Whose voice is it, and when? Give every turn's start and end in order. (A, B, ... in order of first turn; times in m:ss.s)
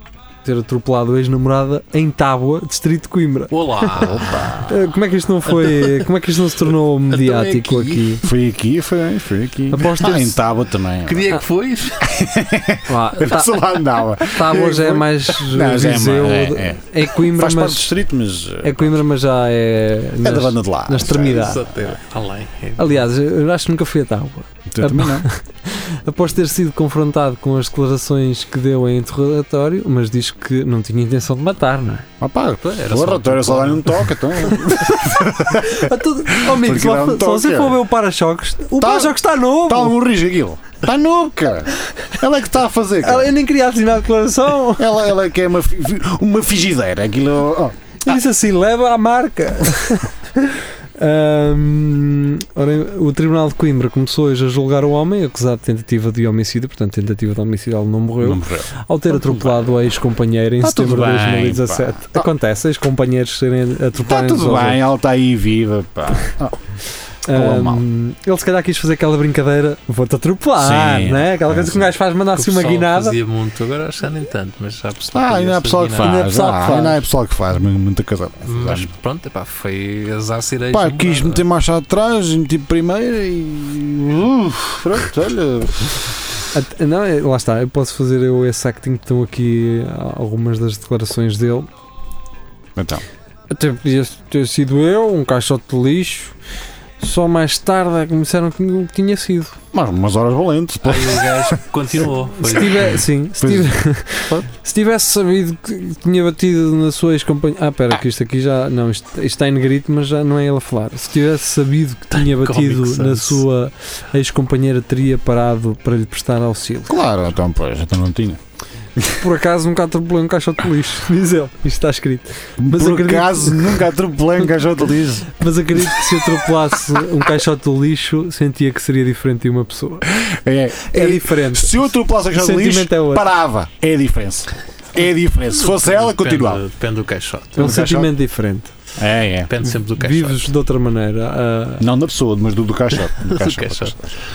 0:00.4-0:08.2 A
0:03.5-0:04.6 B
0:04.1-0:04.7 C
0:05.4-0:06.4 B
0:07.1-0:08.2 B
0:08.2-0:11.4 C
0:09.7-0:10.4 A
0:11.0-0:12.1 B
0:12.0-0:19.0 C
0:12.8-0:17.9 A
0:18.6-0:21.6 A
0:20.2-0:21.9 C
0:21.2-0:23.0 B
0:22.8-0:32.1 A
0:24.7-0:25.2 C
0:32.2-0:37.8 C
0:32.6-0:34.1 B
0:34.4-0:40.0 A
0:38.8-0:43.3 C
0:43.0-0:45.0 A
0:44.8-0:48.2 C
0:48.0-1:04.8 A
0:58.2-0:59.6 C
1:00.6-1:02.2 C
1:03.9-1:06.6 C
1:07.2-1:13.2 A
1:07.2-1:07.8 C
1:10.5-1:11.9 C
1:12.3-1:16.2 B
1:15.1-1:18.9 C
1:16.0-1:17.0 A
1:18.4-1:21.4 B
1:20.7-1:26.2 C
1:26.5-1:31.7 A
1:32.8-1:33.0 C
1:33.5-1:36.3 A
1:37.0-1:39.6 A
1:39.7-1:41.6 C
1:40.8-1:43.0 B
1:42.4-1:57.0 A
1:43.4-1:43.8 C
1:52.1-1:53.4 B
1:56.9-1:58.4 C
1:59.2-2:03.9 A
2:02.6-2:06.5 C
2:05.2-2:10.1 A
2:10.1-2:16.6 C
2:10.8-2:13.3 A
2:15.6-2:17.9 B
2:17.6-2:18.7 A
2:17.6-2:18.1 C
2:19.0-2:19.5 C
2:19.5-2:20.5 B
2:19.9-2:21.9 A
2:21.8-2:24.1 C
2:22.9-2:24.0 B